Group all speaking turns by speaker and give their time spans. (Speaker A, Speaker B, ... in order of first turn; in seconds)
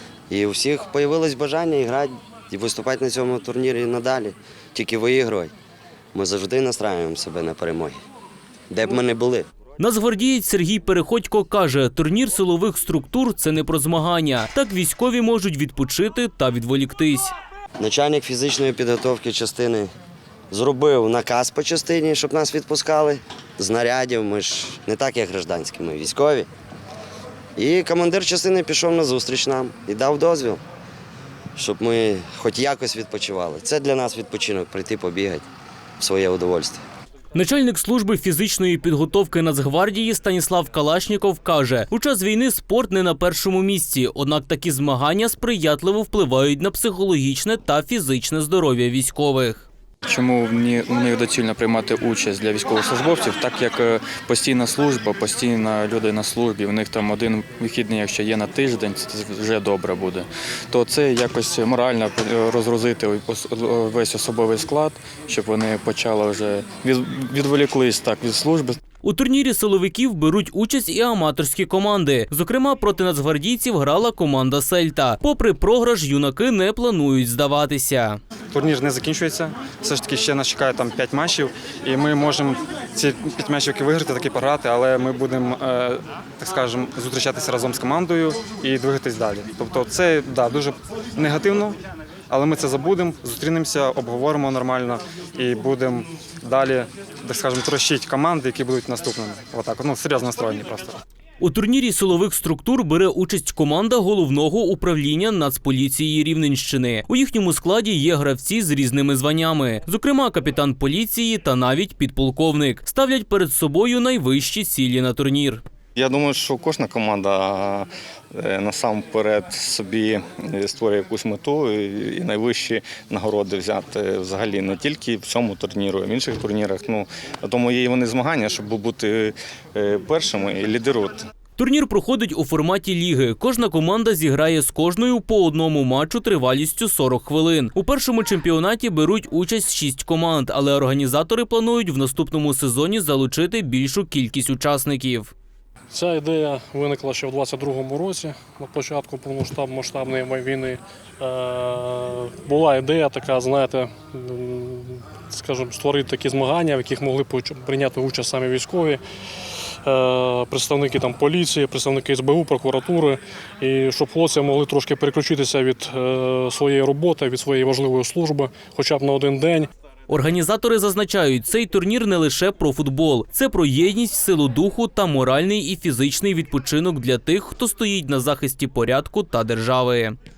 Speaker A: 0.3-5.5, 6.1-8.0, 8.7-9.5, 17.8-19.9, 20.5-26.5, 27.6-30.6, 31.6-35.4, 36.0-36.8
Speaker B: 9.8-17.3, 37.3-49.7, 69.0-78.2, 101.4-115.6, 131.6-145.3, 170.1-180.2
Speaker C: 50.1-68.8
Speaker D: 78.5-91.8, 92.3-101.0
Speaker E: 116.0-131.2
Speaker F: 145.9-159.0, 159.8-169.7